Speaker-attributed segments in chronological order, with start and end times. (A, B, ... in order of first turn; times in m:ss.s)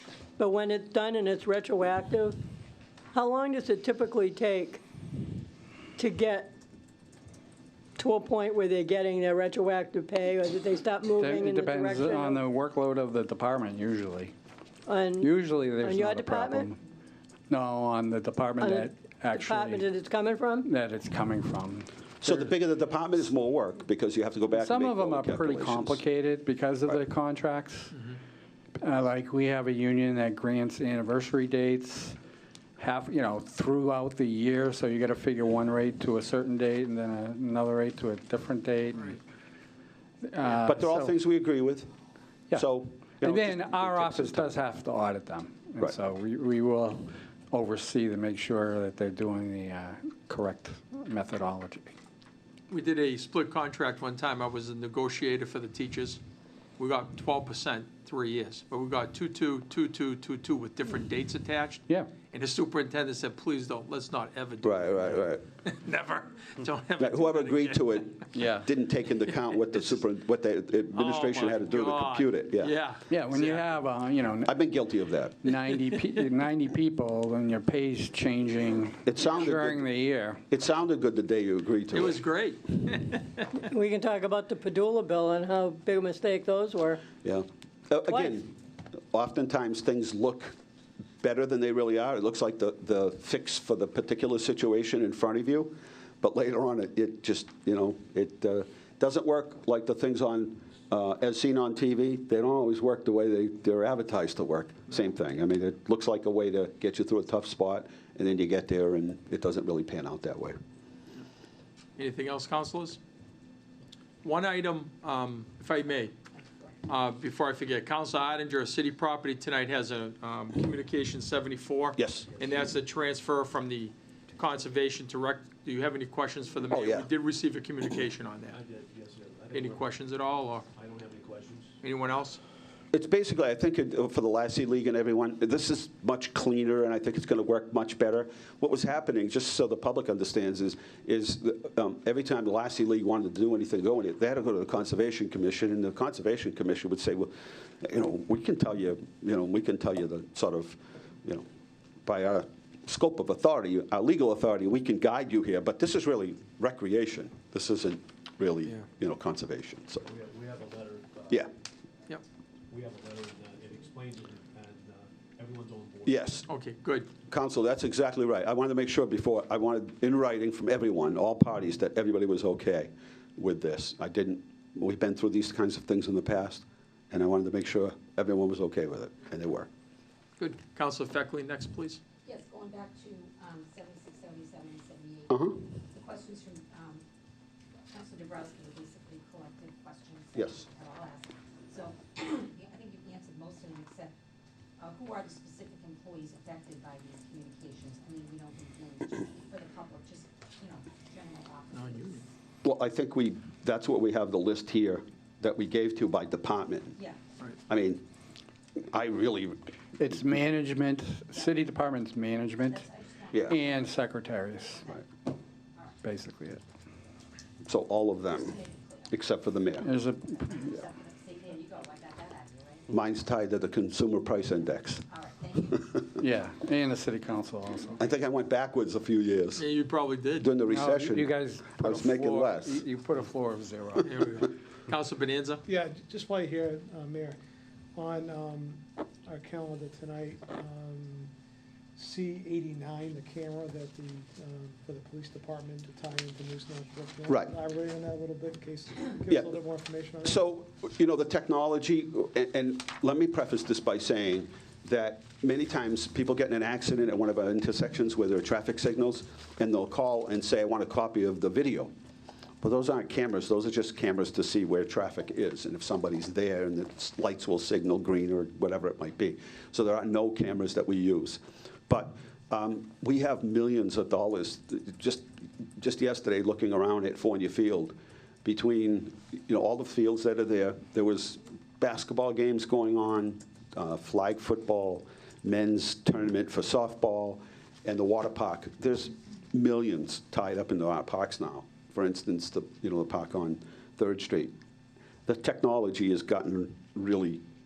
0:00.4-0:02.4 A
0:03.1-0:04.8 A
0:06.0-0:06.5 A
0:08.0-0:12.4 A
0:11.2-0:14.3 B
0:14.8-0:16.7 A
0:15.2-0:16.8 B
0:17.5-0:19.9 B
0:18.6-0:20.7 A
0:20.6-0:22.5 B
0:22.2-0:26.0 C
0:24.5-0:28.0 B
0:28.8-0:32.2 B
0:32.8-0:39.2 B
0:40.2-0:41.1 B
0:40.4-0:41.9 C
0:42.5-0:44.6 C
0:43.2-0:51.9 B
0:52.7-0:56.2 D
0:56.8-1:08.2 D
1:04.6-1:05.4 C
1:07.0-1:12.8 C
1:08.3-1:08.7 B
1:10.9-1:13.7 D
1:13.1-1:14.5 B
1:14.4-1:15.4 C
1:15.4-1:20.4 B
1:19.0-1:19.9 C
1:20.5-1:22.2 C
1:21.9-1:23.4 D
1:23.5-1:27.0 A
1:27.2-1:28.5 C
1:29.1-1:30.5 C
1:31.2-1:50.6 C
1:52.0-1:53.0 D
1:54.2-1:56.1 D
1:56.4-1:56.8 E
1:56.8-2:08.6 D
2:02.0-2:02.3 C
2:02.2-2:02.7 F
2:06.7-2:07.1 C
2:08.5-2:09.9 F
2:09.5-2:10.7 D
2:10.7-2:11.8 F
2:11.8-2:12.4 D
2:12.9-2:31.4 C
2:32.0-2:40.0 C
2:40.0-2:41.5 F
2:42.7-2:46.3 F
2:46.0-2:46.5 C
2:46.5-2:47.1 D
2:47.3-2:59.7 C
3:00.4-3:02.0 D
3:02.2-3:07.0 E
3:05.3-3:05.6 C
3:07.9-3:14.1 E
3:10.3-3:10.6 C
3:14.8-3:22.3 E
3:21.7-3:22.2 D
3:22.6-3:27.0 C
3:27.0-3:27.2 E
3:27.7-3:28.0 C
3:28.9-3:29.7 C
3:30.0-3:32.9 B
3:32.7-3:33.9 E
3:33.5-3:34.8 B
3:34.7-3:35.0 E
3:36.0-3:36.6 B
3:37.6-3:38.6 C
3:38.3-3:39.1 E
3:39.1-3:39.9 C
3:39.8-3:40.7 B
3:40.4-3:42.9 E
3:42.9-3:45.0 C
3:45.1-3:46.1 E
3:45.7-3:46.0 C
3:46.2-3:48.0 B
3:48.0-3:49.7 C
3:49.6-3:50.5 D
3:50.4-3:52.8 C
3:50.6-3:54.4 B
3:54.0-3:55.6 D
3:55.7-3:57.4 G
3:57.9-4:01.3 G
4:02.0-4:10.4 G
4:07.3-4:07.5 C
4:09.3-4:09.5 C
4:10.2-4:21.9 C
4:22.6-4:54.5 C
4:55.2-4:57.4 C